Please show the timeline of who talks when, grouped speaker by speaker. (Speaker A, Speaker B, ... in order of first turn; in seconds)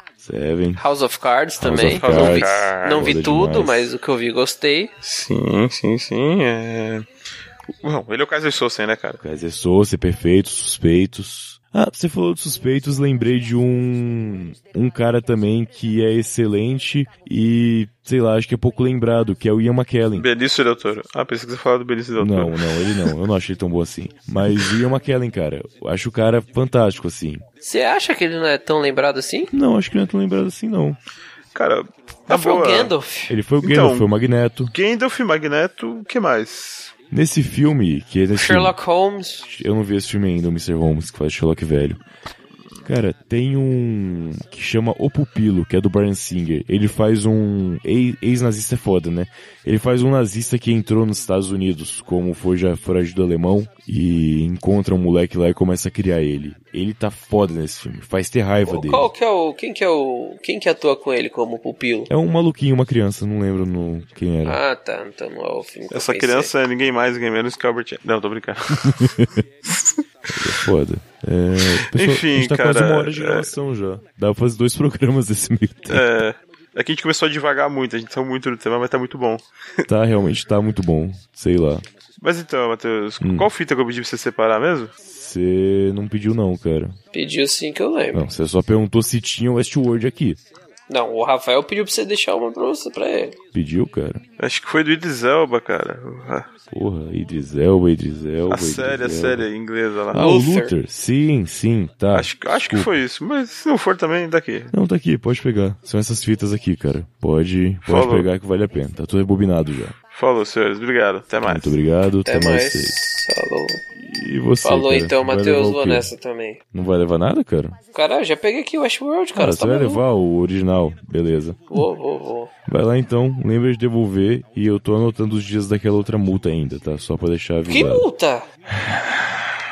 Speaker A: 0.2-0.8, 1.6-3.9, 9.2-20.3, 22.2-27.4, 29.5-31.0, 33.3-34.7, 37.1-38.8, 39.4-42.0, 42.8-59.1, 62.1-64.6, 68.8-69.4, 70.3-76.0, 79.9-81.8, 83.2-83.5, 85.0-87.0, 88.1-90.4, 93.5-94.2, 96.7-99.5, 100.1-102.9, 104.7-109.9, 111.4-113.0, 114.0-116.1, 116.7-117.8, 119.3-121.9, 122.7-128.1, 128.8-129.0
Speaker B: 0.8-4.9, 27.6-29.5, 32.3-33.4, 38.3-39.5, 58.6-62.1, 64.4-66.5, 87.1-88.2, 90.9-93.3, 100.1-100.7, 112.2-113.8, 114.6-116.6, 117.9-120.0, 121.7-122.5, 127.7-128.5
Speaker C: 2.0-3.1, 5.0-7.0, 7.8-9.2, 20.1-23.1, 31.5-32.9, 33.6-34.1, 34.7-36.9, 65.9-69.1, 69.7-70.0, 71.8-73.5, 75.9-79.8, 82.2-84.9, 94.4-96.5, 98.5-100.3, 102.1-104.7, 107.8-108.3, 110.1-111.8